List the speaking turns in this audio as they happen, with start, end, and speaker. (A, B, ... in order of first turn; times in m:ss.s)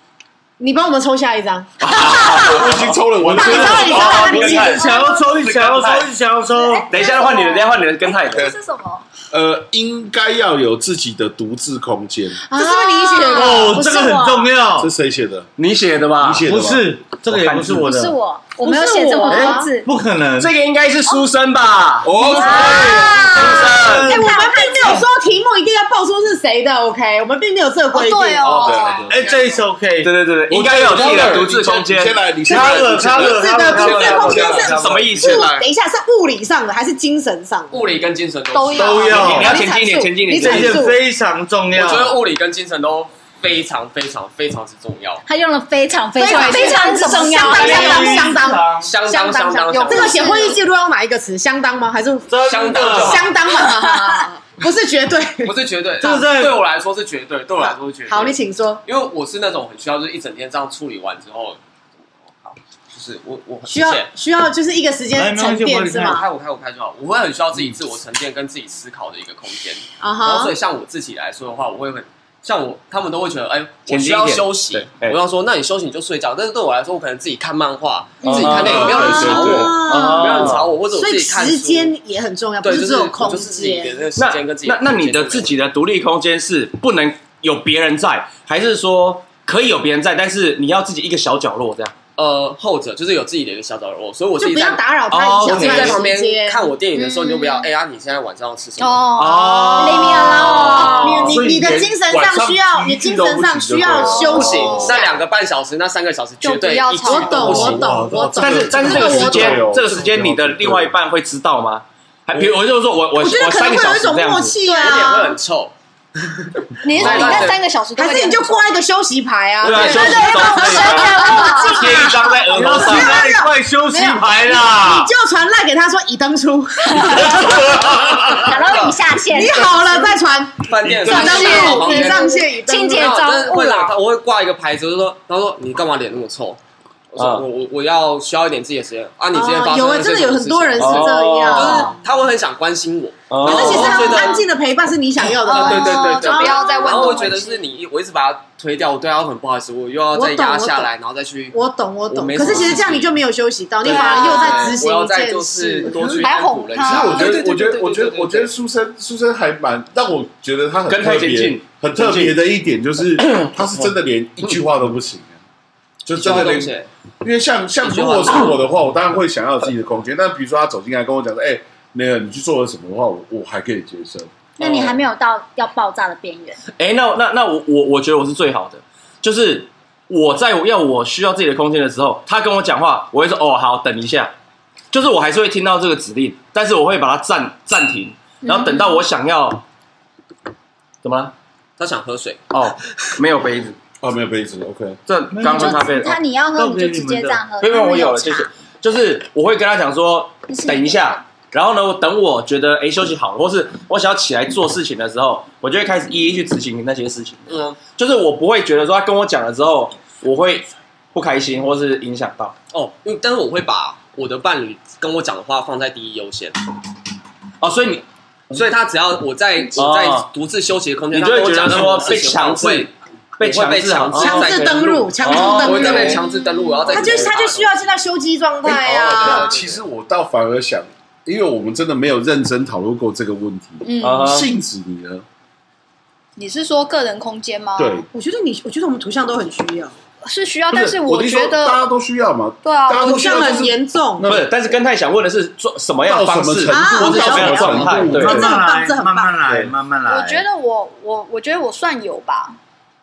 0:00.6-0:02.6 A
0:01.8-0:06.1 B
0:02.1-0:04.4 C
0:03.2-0:06.9 D
0:03.3-0:04.9 A
0:04.1-0:05.4 E
0:06.5-0:09.0 E
0:06.9-0:08.5 B
0:09.3-0:12.4 C
0:12.5-0:13.8 A
0:12.5-0:14.5 F
0:13.3-0:14.9 D
0:14.8-0:15.5 C
0:15.6-0:16.4 B
0:16.2-0:16.9 C
0:16.5-0:18.2 D
0:17.3-0:17.8 B
0:17.7-0:18.6 F
0:18.6-0:19.9 E
0:18.6-0:19.7 A
0:19.3-0:20.5 D
0:20.4-0:22.1 B
0:22.0-0:23.2 C
0:22.2-0:25.0 F
0:22.3-0:28.8 A
0:22.4-0:24.4 D
0:23.3-0:24.1 B
0:27.9-0:29.1 E
0:28.4-0:29.3 C
0:28.6-0:29.6 G
0:29.1-0:30.1 D
0:30.0-0:32.2 B
0:30.5-0:34.8 C
0:32.5-0:34.7 D
0:32.5-0:37.9 A
0:33.7-0:35.6 G
0:34.6-0:35.6 B
0:37.7-0:39.4 G
0:38.5-0:39.5 E
0:38.7-0:39.6 D
0:39.1-0:41.0 A
0:39.2-0:40.9 B
0:40.3-0:42.2 D
0:41.7-0:45.2 G
0:45.2-0:48.2 F
0:46.2-0:56.2 A
0:46.2-0:48.3 E
0:47.4-0:48.9 D
0:48.8-0:50.4 G
0:49.7-0:50.6 E
0:52.3-0:53.3 D
0:52.4-0:53.3 G
0:53.5-0:54.2 E
0:55.4-1:01.6 G
0:56.0-0:56.6 D
0:57.6-0:58.8 A
1:02.2-1:04.1 G
1:03.7-1:06.2 A
1:05.1-1:06.2 D
1:06.0-1:21.9 G
1:10.0-1:10.6 A
1:13.9-1:15.2 B
1:18.2-1:20.7 B
1:18.3-1:24.0 A
1:18.6-1:19.8 C
1:22.6-1:25.6 G
1:24.2-1:31.9 B
1:32.2-1:34.8 G
1:34.4-1:36.7 A
1:35.1-1:36.0 B
1:35.4-1:39.3 G
1:36.9-1:37.7 E
1:38.8-1:40.2 E
1:39.2-1:41.4 B
1:39.4-1:45.2 A
1:39.8-1:41.3 F
1:41.2-1:44.9 C
1:44.0-1:45.0 E
1:44.3-1:47.8 G
1:46.4-1:47.8 E
1:47.0-1:49.6 A
1:47.5-1:49.4 D
1:47.7-1:48.1 C
1:48.4-1:54.6 B
1:48.7-1:51.0 C
1:53.2-1:55.4 A
1:54.6-1:57.6 G
1:56.8-1:58.7 E
1:57.0-1:57.4 B
1:57.0-2:08.6 A
1:59.6-2:03.2 B
1:59.9-2:02.3 F
1:59.9-2:02.0 E
2:02.5-2:05.1 D
2:07.3-2:10.1 F
2:08.7-2:08.9 G
2:09.3-2:13.2 A
2:10.7-2:16.6 G
2:10.9-2:11.2 C
2:11.0-2:12.3 E
2:11.3-2:13.9 F
2:17.1-2:24.4 G
2:17.2-2:17.4 B
2:19.3-2:22.0 A
2:20.8-2:21.9 B
2:23.3-2:24.2 B
2:23.4-2:27.3 A
2:23.8-2:24.4 E
2:25.4-2:27.6 E
2:25.5-2:31.6 G
2:30.1-2:30.9 A
2:31.5-2:36.2 A
2:32.1-2:33.2 G
2:32.5-2:32.8 E
2:33.8-2:38.5 G
2:33.8-2:34.8 E
2:36.2-2:37.4 E
2:36.8-2:45.4 C
2:40.9-2:42.4 B
2:46.1-2:54.3 C
2:46.2-2:46.9 G
2:47.8-2:48.6 G
2:54.6-2:56.6 F
2:54.6-2:55.0 B
2:56.8-3:04.3 B
3:04.9-3:09.6 B
3:08.5-3:08.8 E
3:11.0-3:11.3 B
3:11.8-3:12.6 G
3:12.5-3:13.8 B
3:14.0-3:15.0 C
3:15.1-3:16.2 B
3:15.3-3:16.0 D
3:15.4-3:18.5 F
3:16.6-3:17.4 D
3:17.6-3:32.6 B
3:20.5-3:21.2 F
3:27.5-3:27.8 G
3:32.7-3:36.6 G
3:37.6-3:38.6 B
3:38.5-3:47.9 G
3:39.8-3:40.3 B
3:41.1-3:46.2 B
3:44.2-3:46.3 A
3:46.2-3:47.0 E
3:46.9-3:49.6 A
3:48.6-3:55.2 C
3:48.8-3:49.8 G
3:53.8-3:54.3 E
3:54.0-3:54.5 B
3:56.4-3:58.1 E
3:57.8-3:58.1 C
3:58.1-4:00.0 A
4:00.2-4:01.8 E
4:00.7-4:04.5 C
4:02.6-4:03.6 E
4:03.0-4:04.3 A
4:04.2-4:08.6 B
4:06.0-4:08.5 C
4:06.7-4:09.4 A
4:08.1-4:10.4 D
4:10.1-4:12.6 E